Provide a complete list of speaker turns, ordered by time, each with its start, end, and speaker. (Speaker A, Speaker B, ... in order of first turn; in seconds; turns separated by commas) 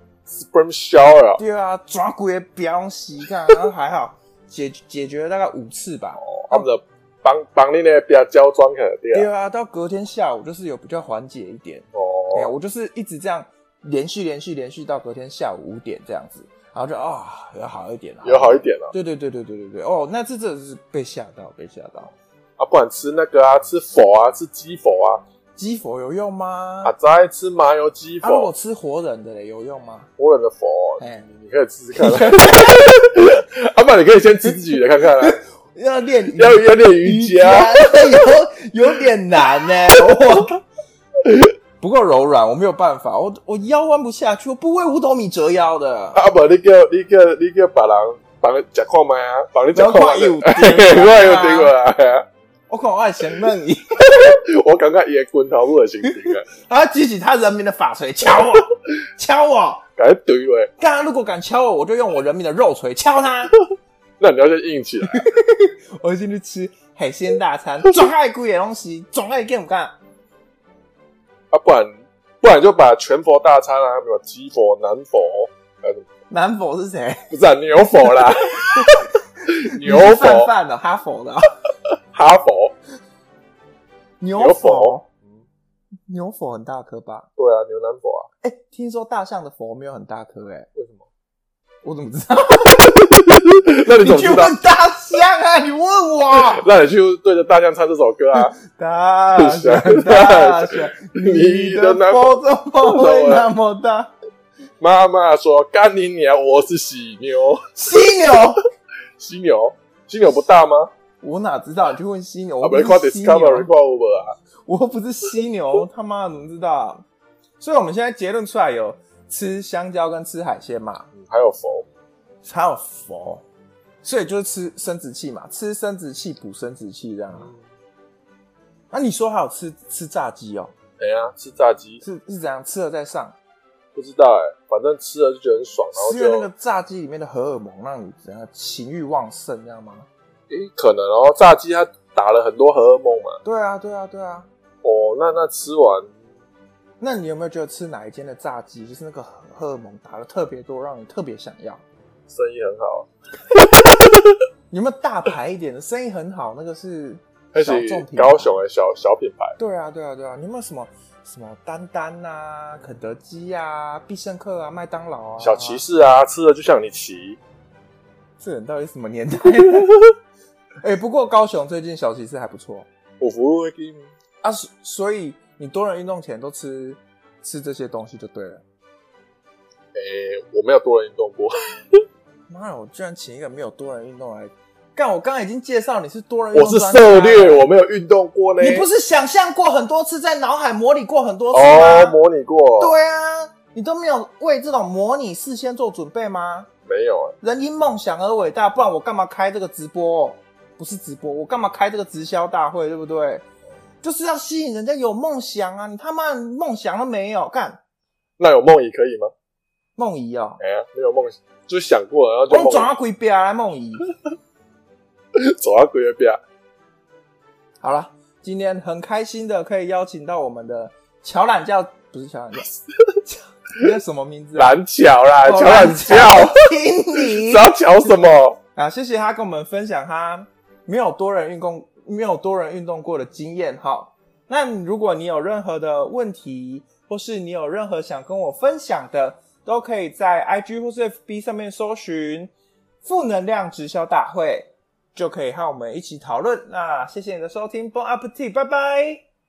Speaker A: 0.3-1.4, Speaker B: 1.4-6.7, Speaker A: 6.2-9.3, Speaker B: 9.1-22.1, Speaker A: 11.9-12.5, Speaker A: 18.2-18.9, Speaker A: 22.6-25.2, Speaker B: 25.6-26.9, Speaker A: 26.8-28.5, Speaker B: 28.2-30.1, Speaker A: 30.2-35.4, Speaker B: 31.0-31.2, Speaker B: 31.9-32.9, Speaker B: 35.1-40.6, Speaker A: 36.4-38.3, Speaker A: 40.0-40.4, Speaker A: 41.2-41.5, Speaker B: 41.8-46.2, Speaker A: 46.1-52.2, Speaker B: 49.7-51.7, Speaker B: 52.7-54.3, Speaker A: 54.1-56.5, Speaker B: 56.0-59.8, Speaker A: 60.0-60.7, Speaker B: 60.8-63.5, Speaker A: 64.2-65.2, Speaker B: 65.1-69.9, Speaker A: 71.5-71.9, Speaker A: 72.4-76.0, Speaker B: 76.3-77.3, Speaker A: 77.3-80.5, Speaker B: 78.8-81.5, Speaker A: 82.1-82.7, Speaker B: 84.2-85.0, Speaker A: 84.4-85.4, Speaker B: 86.1-87.3, Speaker A: 87.4-88.3, Speaker B: 88.4-90.7, Speaker A: 90.7-91.0, Speaker B: 91.8-93.0, Speaker A: 93.0-94.6, Speaker B: 93.8-96.6, Speaker A: 96.3-98.5, Speaker B: 98.6-104.1, Speaker A: 99.3-103.5, Speaker A: 104.8-107.7, Speaker B: 107.8-108.6, Speaker A: 109.2-110.9, Speaker B: 111.2-113.7, Speaker A: 112.6-114.4, Speaker B: 114.7-117.0, Speaker B: 117.6-121.1, Speaker A: 121.1-121.8, Speaker B: 122.4-123.4, Speaker B: 124.0-127.5, Speaker A: 127.3-127.6, Speaker B: 128.9-130.7, Speaker A: 131.0-132.0, Speaker B: 132.0-133.4, Speaker A: 133.9-136.5, Speaker B: 135.9-140.1, Speaker A: 140.5-143.4, Speaker B: 143.4-144.5, Speaker A: 144.8-146.1, Speaker B: 147.0-151.8, Speaker A: 152.3-154.3, Speaker B: 154.7-158.6, Speaker A: 157.5-159.6, Speaker B: 159.6-165.8, Speaker A: 165.4-167.4, Speaker B: 168.4-169.9, Speaker B: 170.8-172.9, Speaker A: 173.2-174.1, Speaker B: 174.4-178.6, Speaker A: 179.9-182.0, Speaker B: 182.5-187.7, Speaker A: 186.5-188.9, Speaker B: 188.6-192.2, Speaker A: 191.5-192.9, Speaker B: 192.8-196.7, Speaker A: 196.8-197.3, Speaker B: 197.4-203.4, Speaker B: 204.0-207.8, Speaker A: 208.4-209.3, Speaker B: 209.9-210.6, Speaker A: 210.6-212.9, Speaker B: 212.5-214.1, Speaker A: 215.4-216.4, Speaker B: 217.8-222.7, Speaker B: 223.2-224.8, Speaker A: 224.5-228.6, Speaker B: 225.4-227.7, Speaker B: 228.7-242.5, Speaker B: 243.0-249.2